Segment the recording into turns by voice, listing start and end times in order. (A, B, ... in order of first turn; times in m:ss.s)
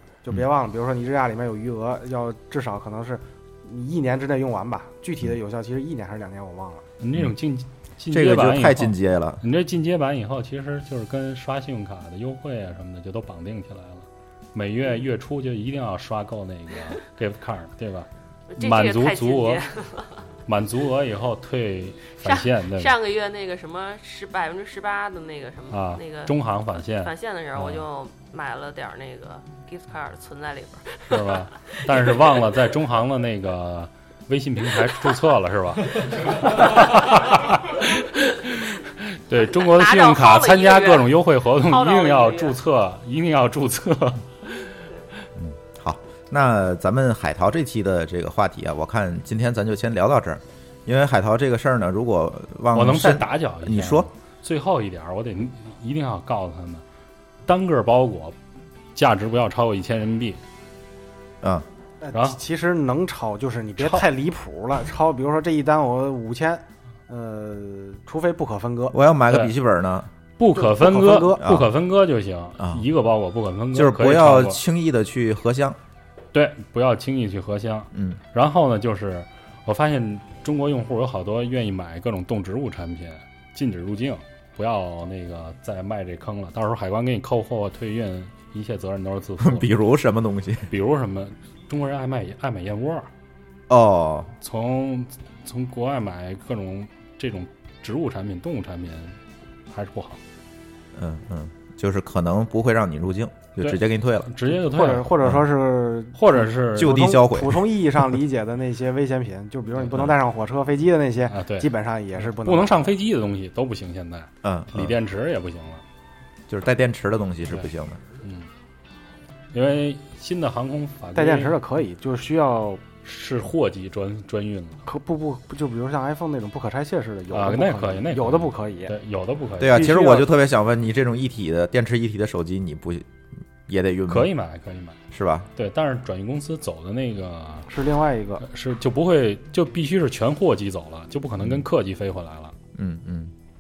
0:00.2-0:06.9 A
0:07.0-0:19.6 B
0:08.1-0:09.4 C
0:18.5-0:20.2 D
0:20.5-0:23.0 B
0:22.2-0:26.4 D
0:25.7-0:27.9 B
0:27.0-0:32.2 D
0:31.1-0:44.7 B
0:39.4-0:42.6 D
0:45.4-0:54.1 C
0:52.7-0:56.8 B
0:57.5-0:58.4 B
0:59.0-1:00.4 B
1:02.0-1:09.0 A
1:03.8-1:04.1 B
1:08.9-1:10.1 C
1:09.3-1:09.6 B
1:10.4-1:14.6 B
1:10.5-1:11.4 A
1:11.4-1:11.7 C
1:12.6-1:12.9 C
1:13.7-1:15.8 C
1:16.3-1:29.7 B
1:17.9-1:18.2 C
1:29.4-1:30.7 C
1:30.7-1:33.1 B
1:33.7-1:34.3 C
1:34.4-1:39.2 B
1:39.7-1:40.2 B
1:41.0-1:44.3 C
1:43.6-1:45.4 B
1:44.5-1:52.9 A
1:46.2-1:47.0 B
1:46.7-1:48.0 C
1:49.9-1:50.1 B
1:51.3-1:55.8 B
1:54.4-1:55.0 C
1:56.5-1:58.0 C
1:58.2-1:58.5 B
1:59.5-2:01.5 B
2:01.2-2:02.8 A
2:03.0-2:04.8 B
2:04.9-2:09.0 A
2:07.3-2:09.9 B
2:09.6-2:13.1 C
2:09.6-2:10.3 A
2:13.7-2:14.3 C
2:14.1-2:15.0 B
2:15.1-2:15.5 C
2:15.6-2:17.7 B
2:17.7-2:18.4 A
2:18.4-2:22.6 B
2:22.8-2:23.3 C